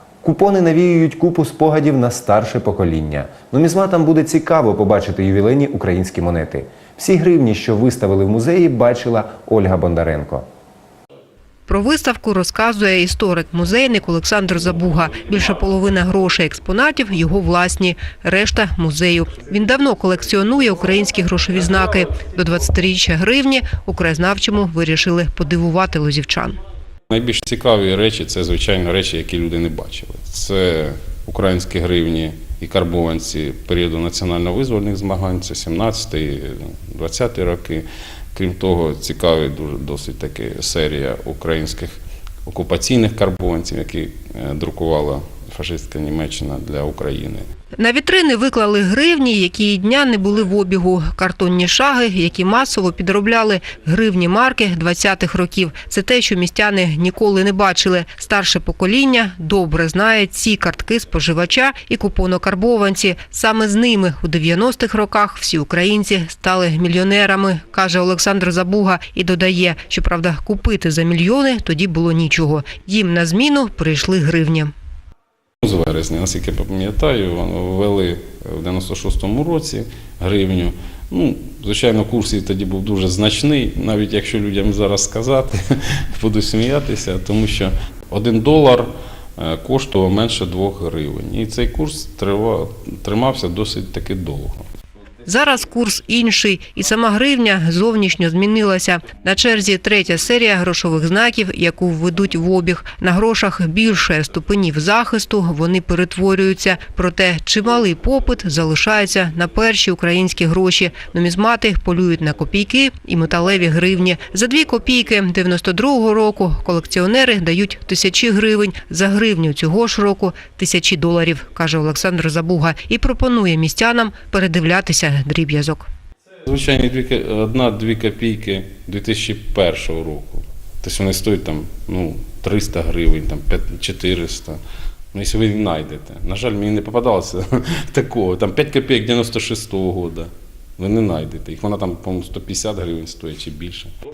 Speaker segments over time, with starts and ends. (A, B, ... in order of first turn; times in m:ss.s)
0:00.2-0:10.5 A
0:11.7-0:26.6 B
0:27.1-0:47.4 C
0:47.8-1:14.7 B
1:15.6-1:34.7 C
1:35.3-2:05.9 B
2:06.5-2:14.6 C
2:15.1-2:23.9 C